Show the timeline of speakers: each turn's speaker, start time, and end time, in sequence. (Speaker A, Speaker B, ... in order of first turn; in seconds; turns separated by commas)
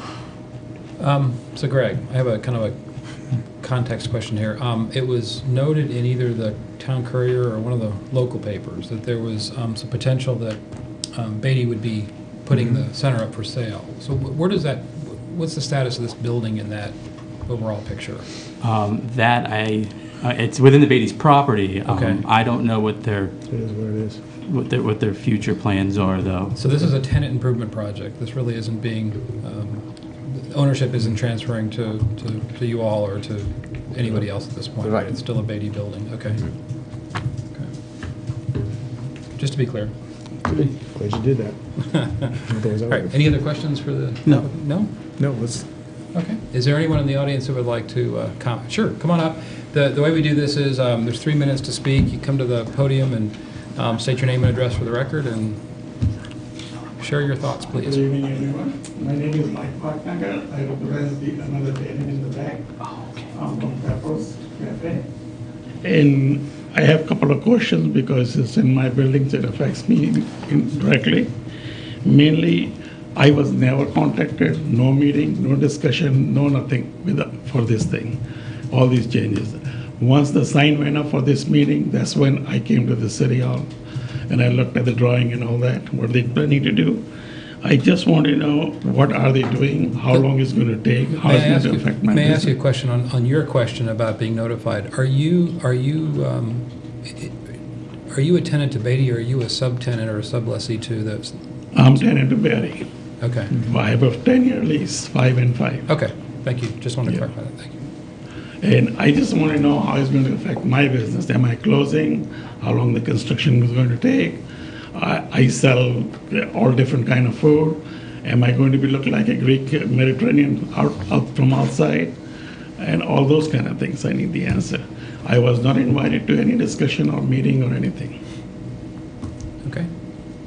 Speaker A: 1.0-2.8, Speaker A: 3.4-18.3, Speaker B: 18.6-23.3, Speaker A: 21.9-22.2, Speaker C: 23.5-24.2, Speaker B: 24.5-26.6, Speaker A: 26.6-36.5, Speaker A: 39.4-39.9, Speaker C: 40.8-43.1, Speaker A: 41.9-42.2, Speaker A: 42.9-44.9, Speaker C: 45.2-45.7, Speaker A: 46.1-55.6, Speaker A: 57.0-58.0, Speaker D: 57.8-62.7, Speaker D: 63.3-65.1, Speaker D: 65.8-71.3, Speaker D: 72.0-78.2, Speaker D: 78.7-83.7, Speaker D: 84.3-87.0, Speaker D: 87.6-92.5, Speaker A: 91.3-97.4, Speaker A: 98.1-101.4, Speaker D: 101.7-102.9, Speaker A: 103.2-103.6, Speaker D: 103.6-105.9, Speaker A: 105.9-107.9, Speaker D: 108.6-114.4, Speaker D: 114.9-122.2, Speaker D: 122.8-128.2, Speaker A: 129.6-129.9